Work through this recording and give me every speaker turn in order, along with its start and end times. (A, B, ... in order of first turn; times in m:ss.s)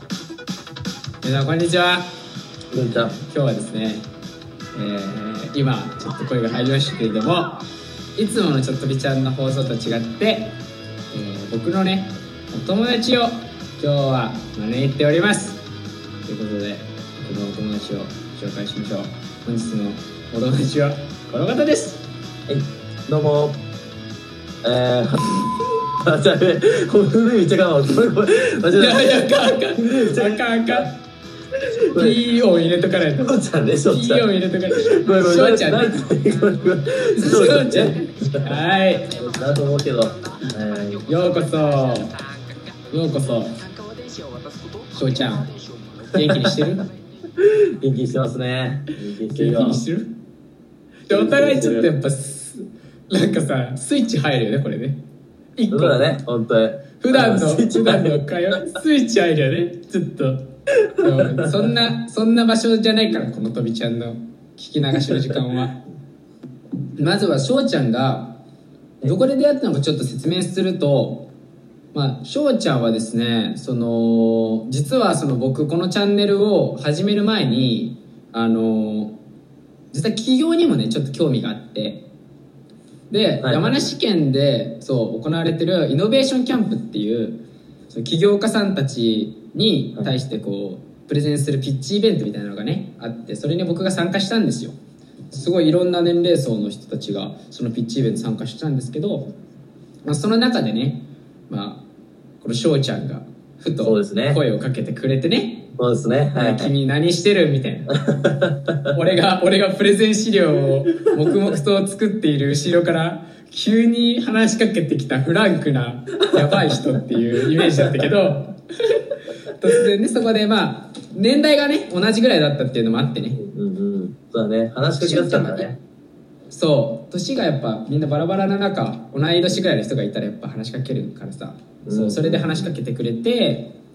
0:01.2-0:02.1 A
0:02.7-0:03.2 B
0:02.8-0:04.0 A
0:04.7-0:07.6 A
0:08.2-0:10.6 A
0:11.1-0:15.6 A
0:16.2-0:22.0 A
0:22.5-0:23.6 B
0:24.6-0:30.9 B
0:28.8-0:30.9 A
0:31.9-0:32.2 B
0:32.0-0:33.4 A
0:33.2-0:38.5 B
0:33.9-0:36.1 A
0:37.2-0:39.2 A
0:39.2-0:41.1 B
0:41.1-0:42.2 A
0:42.9-0:43.7 A
0:44.9-0:45.5 A
0:46.0-0:46.9 A
0:46.2-0:46.6 B
0:47.4-0:49.8 B
0:49.3-0:50.1 A
0:51.1-0:55.0 A
0:51.1-0:51.9 B
0:55.6-0:56.1 A
0:55.7-0:58.2 B
0:57.0-1:05.8 A
1:01.0-1:01.8 B
1:04.9-1:05.4 B
1:07.0-1:08.4 A
1:09.0-1:11.3 A
1:11.9-1:19.2 A
1:19.9-1:22.1 A
1:23.1-1:34.8 A
1:23.4-1:23.9 B
1:35.3-1:39.3 A
1:40.0-1:41.9 A
1:42.4-1:45.7 A
1:43.8-1:44.4 B
1:45.8-1:46.7 B
1:46.4-1:47.9 A
1:48.0-1:49.0 B
1:48.9-1:59.0 A
1:56.4-1:57.0 B
1:57.6-1:58.1 B
1:59.6-2:03.4 A
2:03.3-2:05.8 B
2:05.0-2:05.7 A
2:06.5-2:13.8 A
2:11.9-2:12.8 B